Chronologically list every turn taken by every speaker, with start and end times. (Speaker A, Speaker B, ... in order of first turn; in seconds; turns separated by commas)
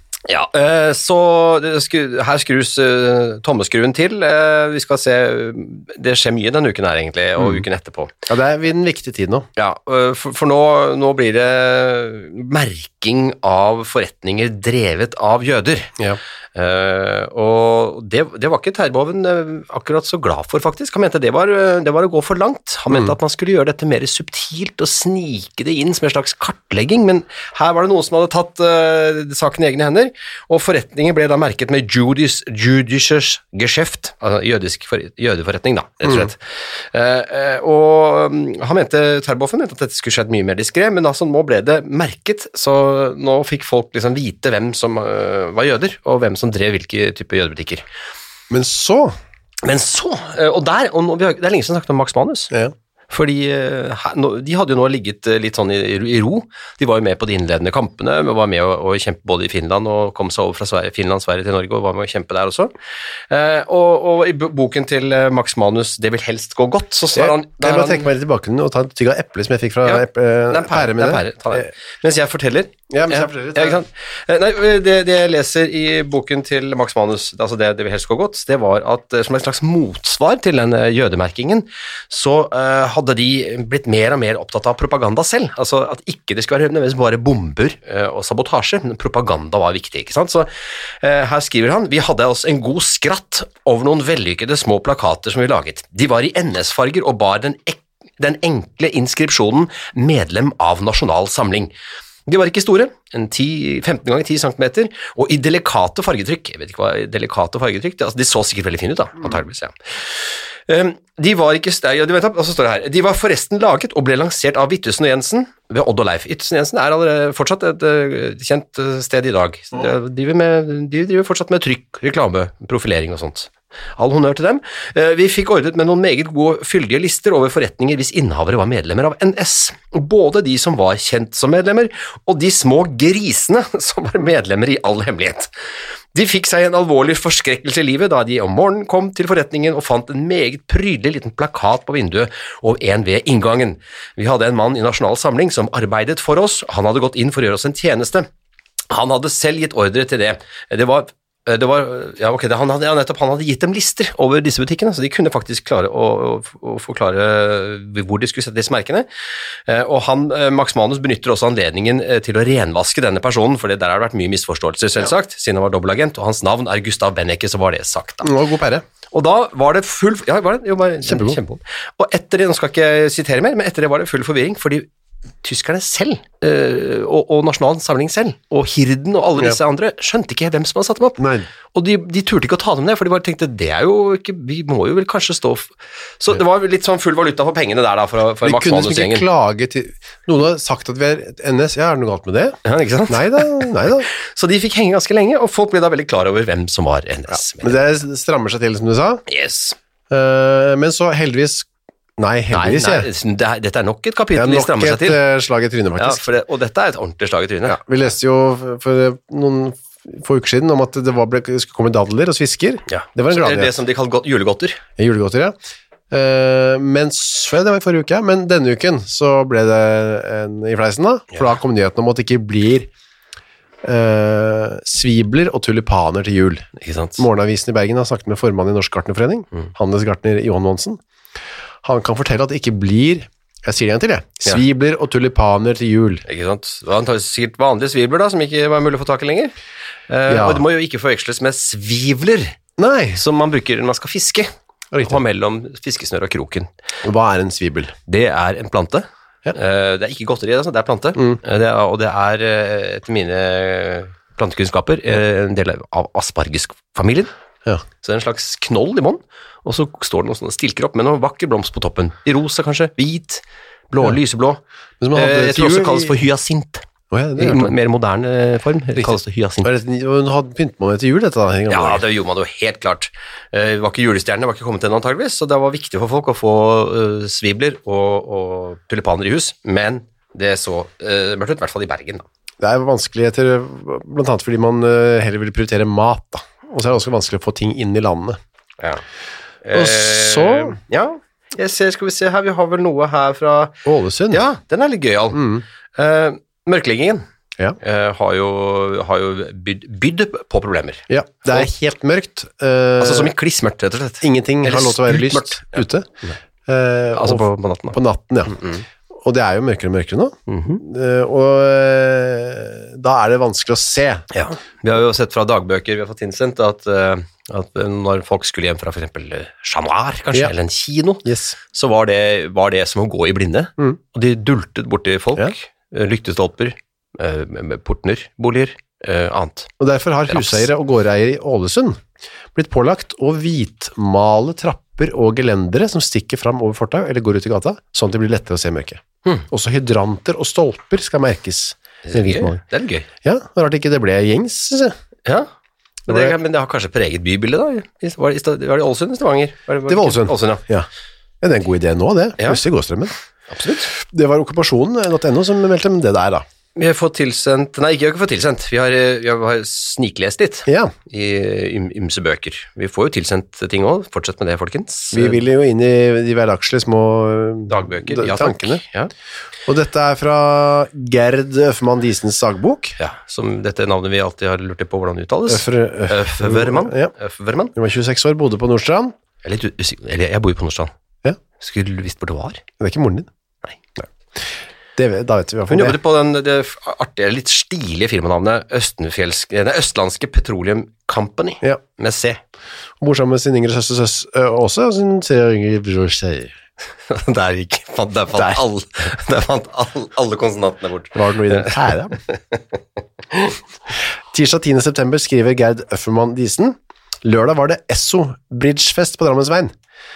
Speaker A: 0.3-8.1, Speaker B: 7.4-7.6, Speaker B: 8.3-9.5, Speaker A: 9.6-15.9, Speaker A: 16.5-47.8, Speaker B: 22.9-23.1, Speaker B: 36.0-36.3, Speaker B: 48.5-49.1, Speaker A: 49.6-52.5, Speaker A: 53.1-62.7, Speaker A: 63.3-68.1, Speaker B: 67.1-71.7, Speaker A: 69.8-101.7, Speaker B: 72.9-73.8, Speaker A: 102.2-135.5, Speaker A: 136.1-148.3, Speaker A: 148.9-159.1, Speaker A: 159.7-168.3, Speaker B: 168.2-168.8, Speaker A: 169.1-174.9, Speaker B: 171.0-171.4, Speaker A: 175.4-189.2, Speaker B: 181.2-181.5, Speaker B: 188.4-192.6, Speaker A: 192.6-197.8, Speaker B: 193.1-194.1, Speaker B: 197.3-199.2, Speaker A: 199.3-199.8, Speaker B: 200.1-203.1, Speaker A: 202.5-205.2, Speaker B: 204.3-206.2, Speaker A: 206.0-207.8, Speaker B: 207.7-213.8, Speaker A: 212.9-214.8, Speaker B: 215.0-215.6, Speaker B: 216.1-222.9, Speaker B: 223.8-231.0, Speaker A: 226.8-227.2, Speaker B: 231.8-236.2, Speaker A: 236.2-239.5, Speaker A: 240.1-242.6, Speaker B: 240.3-240.6, Speaker B: 242.8-243.2, Speaker A: 243.2-246.7, Speaker B: 244.9-245.2, Speaker B: 247.0-247.9, Speaker A: 248.1-257.3, Speaker A: 258.0-264.6, Speaker B: 265.0-266.1, Speaker A: 265.1-266.9, Speaker B: 267.1-267.7, Speaker A: 267.4-269.7, Speaker B: 269.0-272.0, Speaker A: 271.7-282.2, Speaker B: 282.6-288.4, Speaker A: 289.6-295.4, Speaker B: 289.7-290.8, Speaker B: 293.8-294.4, Speaker B: 295.3-295.6, Speaker A: 295.9-297.2, Speaker A: 297.8-301.7, Speaker B: 301.1-303.3, Speaker A: 303.0-306.4, Speaker B: 304.2-306.1, Speaker B: 306.6-308.6, Speaker A: 307.1-308.0, Speaker A: 308.5-308.8, Speaker B: 309.1-314.2, Speaker A: 310.5-310.8, Speaker A: 314.3-329.7, Speaker B: 321.2-321.6, Speaker B: 329.8-332.0, Speaker A: 330.3-330.7, Speaker B: 332.5-342.6, Speaker A: 342.0-343.1, Speaker B: 343.2-344.9, Speaker A: 346.1-350.6, Speaker B: 346.1-346.3, Speaker B: 349.9-350.9, Speaker B: 351.4-353.1, Speaker A: 353.5-353.9, Speaker B: 353.9-356.4, Speaker A: 356.8-365.4, Speaker B: 360.7-360.9, Speaker B: 365.1-368.8, Speaker A: 367.7-369.1, Speaker B: 369.6-372.9, Speaker A: 373.0-377.7, Speaker B: 375.5-377.1, Speaker B: 377.7-379.1, Speaker A: 379.4-380.9, Speaker A: 381.6-382.6, Speaker B: 382.8-383.3, Speaker B: 384.9-386.0, Speaker A: 385.7-392.4, Speaker B: 393.0-396.5, Speaker A: 397.1-402.8, Speaker B: 398.3-398.6, Speaker B: 401.1-402.2, Speaker B: 404.3-409.7